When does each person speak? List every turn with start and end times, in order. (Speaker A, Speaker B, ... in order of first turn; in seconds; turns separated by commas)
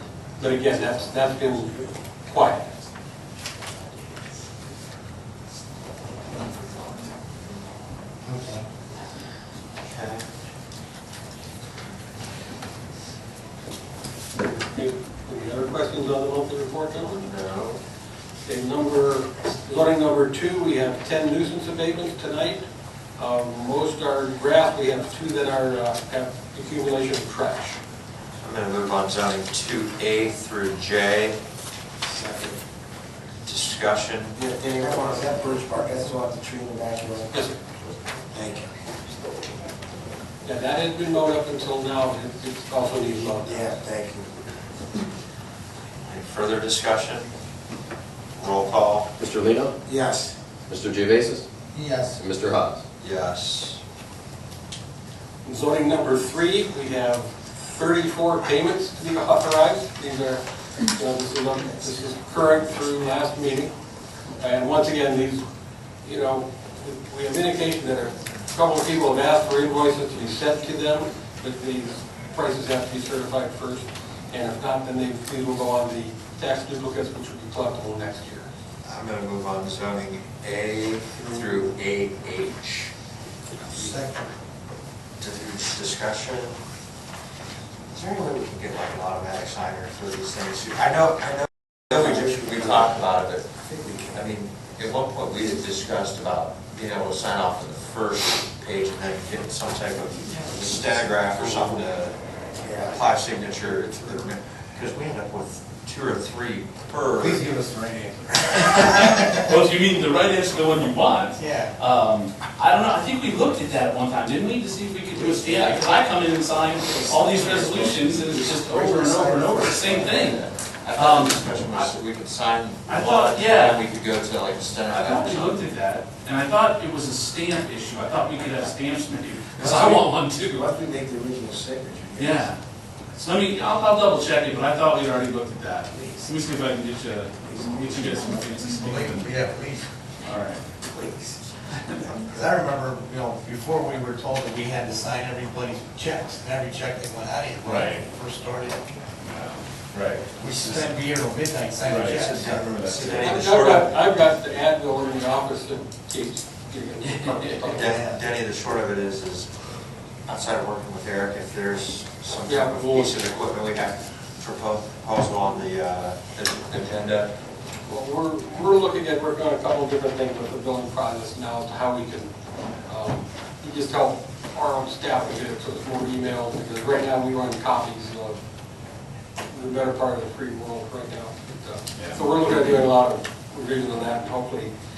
Speaker A: 0.4-2.7, Speaker B: 6.4-6.8, Speaker C: 8.2-8.6, Speaker B: 9.8-10.3, Speaker A: 14.4-17.3, Speaker B: 17.0-17.8, Speaker A: 18.4-22.6, Speaker A: 23.2-27.8, Speaker B: 28.4-31.4, Speaker D: 32.1-32.6, Speaker B: 33.4-34.4, Speaker D: 34.4-37.3, Speaker A: 37.3-37.6, Speaker D: 38.3-38.7, Speaker A: 40.4-43.7, Speaker D: 43.5-44.3, Speaker B: 46.0-47.3, Speaker B: 48.4-49.1, Speaker E: 49.2-49.7, Speaker D: 49.9-50.3, Speaker E: 50.7-51.5, Speaker C: 51.7-52.2, Speaker E: 52.1-52.8, Speaker B: 53.0-53.8, Speaker A: 55.4-63.7, Speaker A: 64.4-65.4, Speaker A: 66.0-78.5, Speaker B: 78.8-82.9, Speaker B: 85.2-86.6, Speaker B: 87.9-102.2, Speaker D: 92.2-92.9, Speaker D: 93.7-94.2, Speaker D: 102.6-102.9, Speaker B: 102.7-107.5, Speaker C: 107.2-109.3, Speaker F: 108.5-121.9, Speaker C: 111.4-111.7, Speaker B: 119.7-125.6, Speaker F: 122.9-123.8, Speaker F: 124.9-130.7, Speaker D: 130.5-132.4, Speaker F: 132.2-132.6, Speaker F: 133.1-139.3, Speaker C: 138.8-139.9, Speaker F: 140.2-140.7, Speaker D: 140.9-141.3, Speaker F: 141.7-142.1, Speaker C: 142.1-148.9, Speaker F: 147.6-148.0, Speaker F: 149.2-150.9, Speaker C: 150.4-153.0, Speaker F: 151.8-153.4, Speaker B: 152.2-153.9, Speaker D: 152.8-153.1, Speaker A: 153.2-157.9, Speaker B: 157.7-159.5, Speaker B: 160.2-167.3, Speaker A: 162.4-163.2, Speaker A: 167.8-172.3, Speaker A: 172.8-178.4, Speaker A: 179.5-184.7, Speaker F: 181.9-182.5